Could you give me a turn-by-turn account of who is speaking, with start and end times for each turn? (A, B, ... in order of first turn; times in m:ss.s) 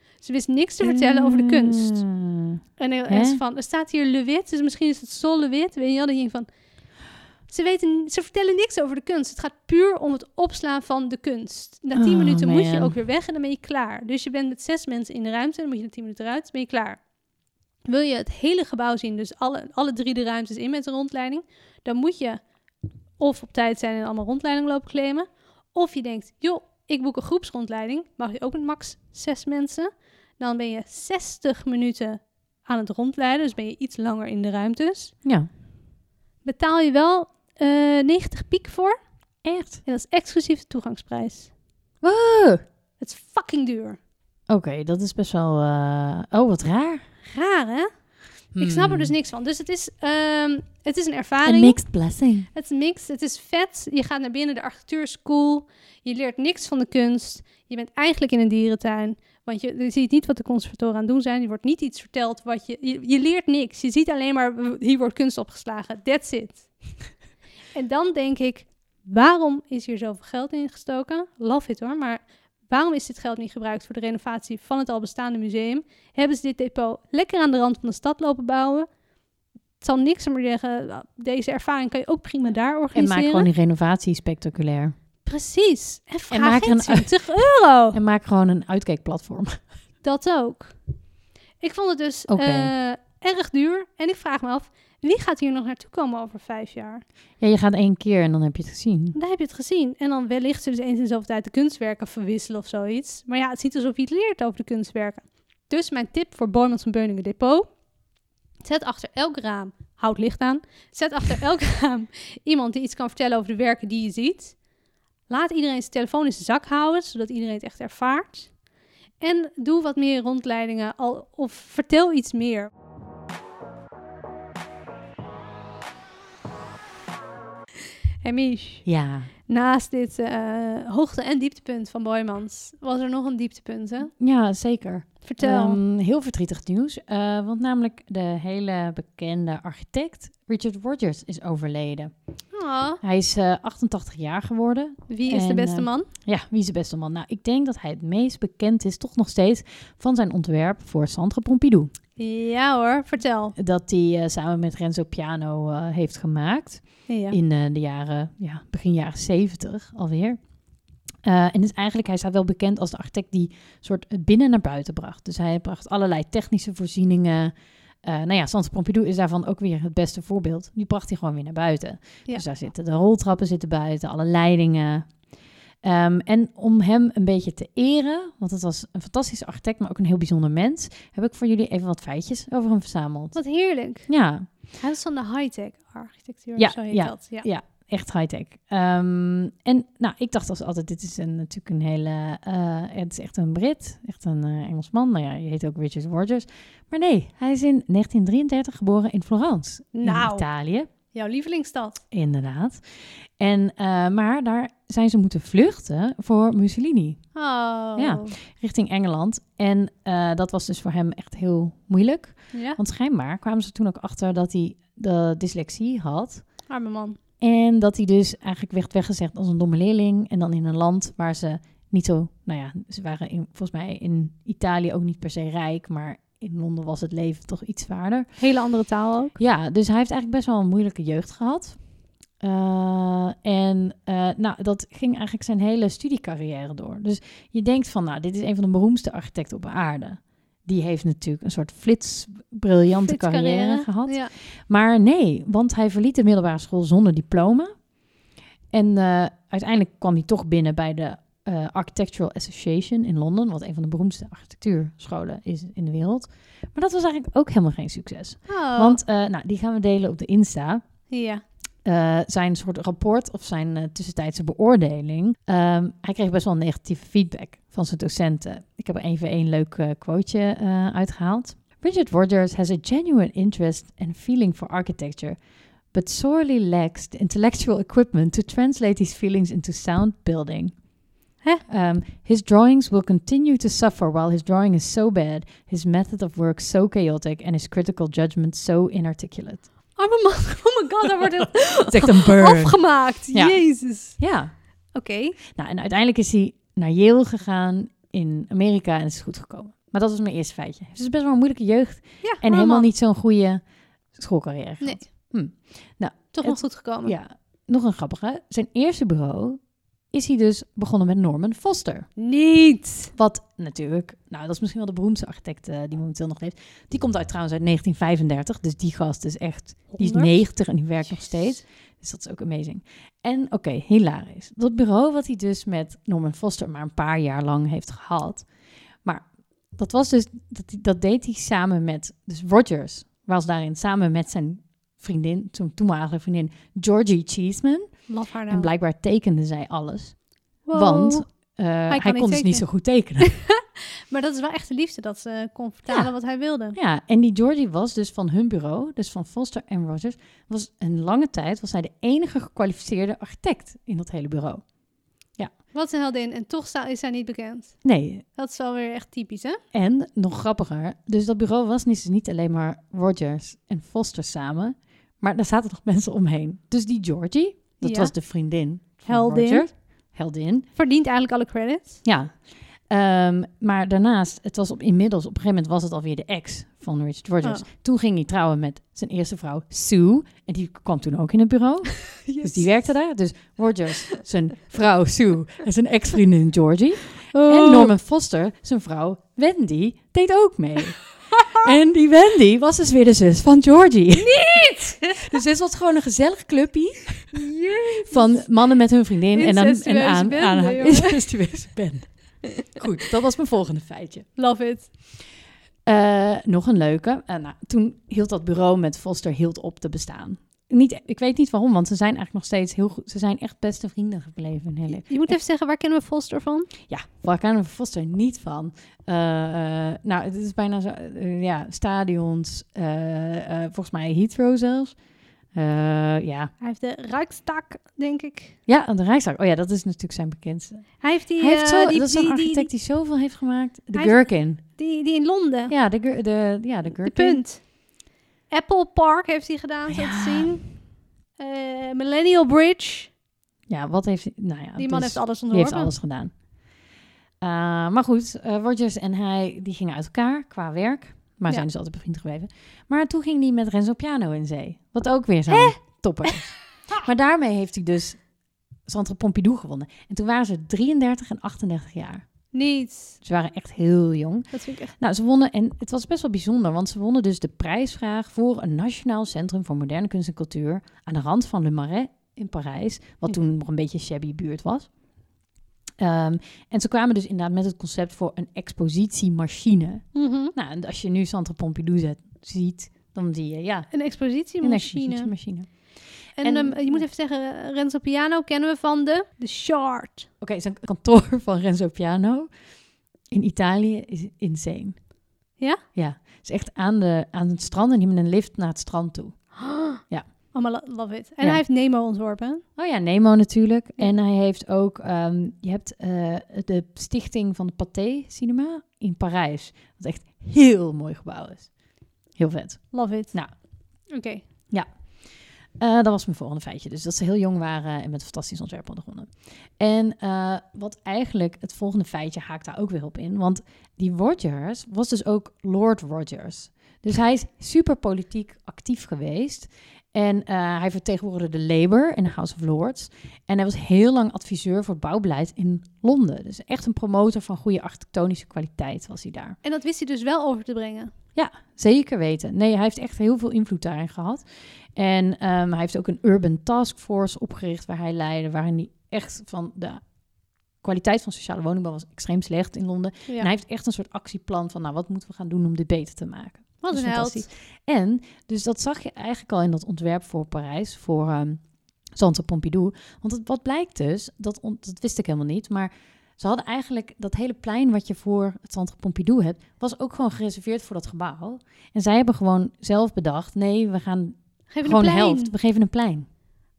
0:00.2-0:02.0 A
0:00.8-0:03.4 B
0:02.8-0:06.5 A
0:07.5-0:17.0 A
0:11.9-0:12.9 B
0:17.9-0:22.4 A
0:23.2-0:35.1 A
0:35.2-0:35.5 B
0:36.4-0:39.0 A
0:39.4-0:39.8 B
0:39.8-0:41.5 A
0:42.0-0:42.6 B
0:43.0-0:44.0 A
0:44.5-0:47.0 B
0:47.2-0:47.9 A
0:48.5-0:49.1 B
0:48.6-0:51.8 A
0:51.4-0:52.5 B
0:52.5-1:06.7 A
1:07.7-1:18.9 A
1:19.8-1:23.5 A
1:22.9-1:24.9 B
1:25.2-1:28.0 A
1:26.3-1:29.6 B
1:30.0-1:30.8 A
1:31.6-1:37.0 A
1:32.3-1:32.7 B
1:37.4-1:39.2 B
1:39.1-1:47.7 A
1:48.6-1:54.6 A
1:55.3-1:58.5 A
1:59.2-2:02.7 A
2:08.2-2:08.8 A
2:08.8-2:09.3 B
2:09.5-2:14.1 A
2:14.1-2:22.1 B
2:15.2-2:15.8 A
2:22.5-2:23.0 A
2:23.0-2:31.9 B
2:25.1-2:26.1 A
2:32.2-2:33.6 A
2:33.6-2:40.4 B
2:37.1-2:37.4 A
2:41.2-2:55.2 B
2:55.8-3:03.4 B
3:03.3-3:04.1 A
3:04.1-3:04.5 B
3:04.7-3:07.5 A
3:06.6-3:20.9 B
3:19.9-3:20.4 A
3:21.1-3:22.0 A
3:22.1-3:27.3 B
3:27.3-3:28.4 A
3:28.0-3:36.6 B
3:32.5-3:32.8 A
3:36.7-3:37.2 A
3:37.4-3:48.4 B
3:48.4-3:49.4 A
3:49.4-3:51.8 B
3:52.4-4:07.9 B
4:03.0-4:04.3 A
4:08.7-4:20.8 B
4:18.5-4:19.0 A
4:21.1-4:21.4 A
4:21.8-4:35.4 B
4:35.9-4:40.8 B
4:41.7-4:49.7 B
4:50.0-4:54.2 A
4:51.6-4:54.6 B
4:54.9-4:55.4 A
4:55.5-5:03.6 B
5:02.2-5:02.9 A
5:04.1-5:12.1 B
5:04.8-5:05.1 A
5:06.3-5:07.1 A
5:12.2-5:13.1 A
5:13.1-5:28.5 B
5:19.9-5:20.4 A
5:29.0-5:43.4 B
5:38.1-5:38.7 A
5:40.6-5:46.8 A
5:45.9-5:46.2 B
5:46.7-5:54.7 B
5:55.7-5:59.6 A
5:57.8-5:58.2 B
5:59.7-6:10.7 B
6:07.8-6:08.1 A
6:09.0-6:09.7 A
6:10.7-6:12.0 A
6:12.0-6:37.5 B
6:22.2-6:22.8 A
6:27.3-6:27.9 A
6:31.3-6:31.6 A
6:34.2-6:35.4 A
6:37.3-6:38.5 A
6:38.0-6:44.3 B
6:39.3-6:41.2 A
6:44.4-6:44.9 A
6:45.8-6:55.4 B
6:55.0-6:56.7 A
6:56.8-7:05.0 B
7:05.5-7:06.5 B
7:06.6-7:08.6 A
7:08.7-7:14.6 B
7:11.0-7:12.7 A
7:13.9-7:15.7 A
7:15.7-7:17.4 B
7:17.0-7:17.8 A
7:18.5-7:20.7 A
7:19.9-7:20.6 B
7:21.4-7:23.1 A
7:23.7-7:26.3 B
7:24.8-7:25.9 A
7:27.4-7:38.2 B
7:35.5-7:36.4 A
7:38.8-7:42.2 B
7:42.5-7:43.2 A
7:43.2-7:54.9 B
7:44.5-7:44.9 A
7:56.0-8:07.0 B
8:00.1-8:00.5 A
8:03.9-8:05.3 A
8:06.4-8:10.3 A
8:10.4-8:12.5 B
8:13.3-8:15.1 B
8:15.6-8:15.8 A
8:15.9-8:20.3 B
8:19.6-8:20.0 A
8:20.5-8:22.6 A
8:22.8-8:31.7 B
8:32.4-8:33.5 B
8:32.9-8:33.4 A
8:34.1-8:34.4 A
8:35.8-8:59.6 B
8:59.6-9:01.1 A
9:01.3-9:10.0 B
9:10.8-9:21.6 B
9:16.8-9:17.4 A
9:22.1-9:36.2 B
9:34.7-9:35.5 A